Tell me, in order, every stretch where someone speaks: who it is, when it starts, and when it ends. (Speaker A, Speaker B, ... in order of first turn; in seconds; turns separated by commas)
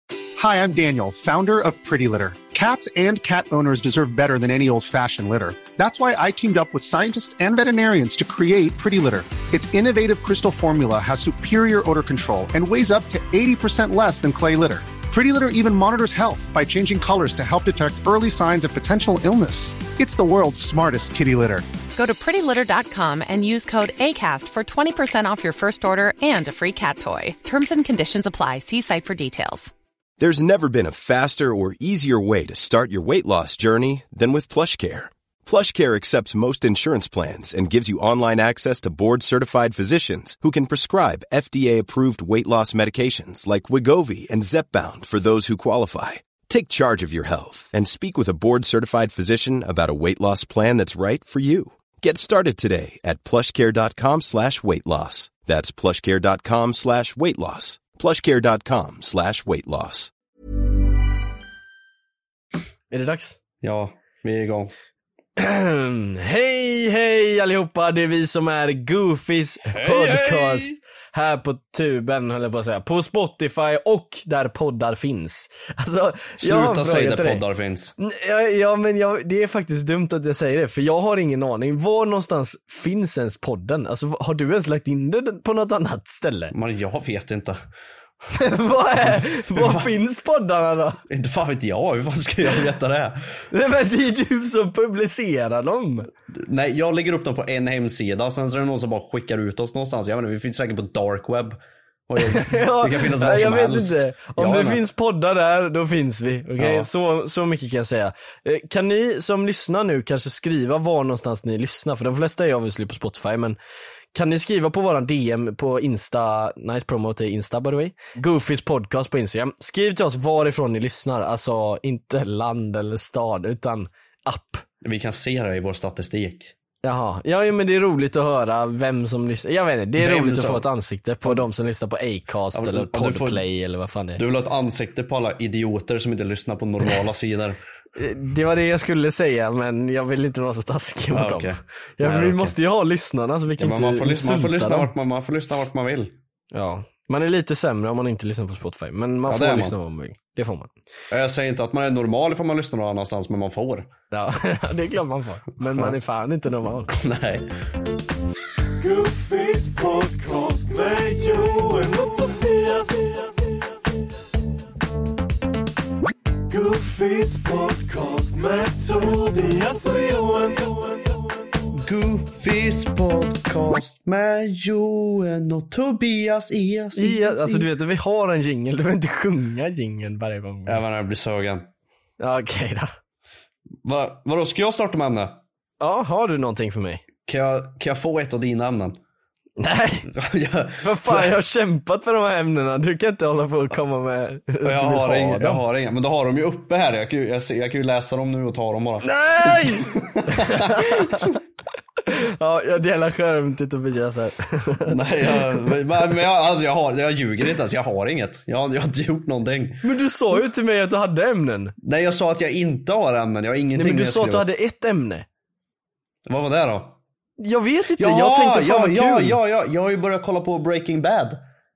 Speaker A: 0.4-21.6, Speaker B: 21.9-29.7, Speaker C: 30.2-60.1, Speaker D: 62.9-63.4, Speaker E: 63.6-64.7, Speaker D: 65.4-77.4, Speaker E: 69.7-70.8, Speaker E: 76.4-77.9, Speaker D: 78.0-86.5, Speaker E: 86.5-87.6, Speaker D: 88.3-91.0, Speaker E: 89.0-89.9, Speaker E: 91.1-93.3, Speaker D: 93.5-96.1, Speaker E: 96.3-104.8, Speaker D: 102.2-113.6, Speaker E: 106.6-106.9, Speaker D: 114.1-124.6, Speaker E: 124.8-126.5, Speaker D: 126.8-134.2, Speaker E: 130.0-130.6, Speaker E: 132.5-133.4, Speaker E: 134.2-137.6, Speaker D: 137.9-144.9, Speaker E: 141.1-142.5, Speaker E: 143.6-146.1, Speaker D: 146.5-150.7, Speaker E: 149.3-149.7, Speaker E: 151.1-153.9, Speaker D: 154.1-156.9, Speaker E: 156.9-157.5, Speaker D: 158.8-163.5, Speaker D: 166.5-171.1, Speaker E: 171.7-177.7, Speaker D: 176.9-180.8, Speaker E: 180.7-181.7, Speaker D: 182.2-182.9, Speaker E: 183.8-185.4, Speaker D: 185.8-187.0, Speaker E: 187.2-189.0, Speaker D: 189.6-190.1, Speaker E: 190.1-191.3, Speaker D: 190.8-195.6, Speaker E: 194.6-201.3, Speaker D: 199.0-201.3, Speaker D: 202.1-205.5, Speaker E: 204.9-209.8, Speaker D: 209.8-211.7, Speaker E: 211.8-214.5, Speaker D: 213.8-215.2, Speaker E: 216.2-216.9, Speaker D: 217.4-219.4, Speaker E: 218.0-221.4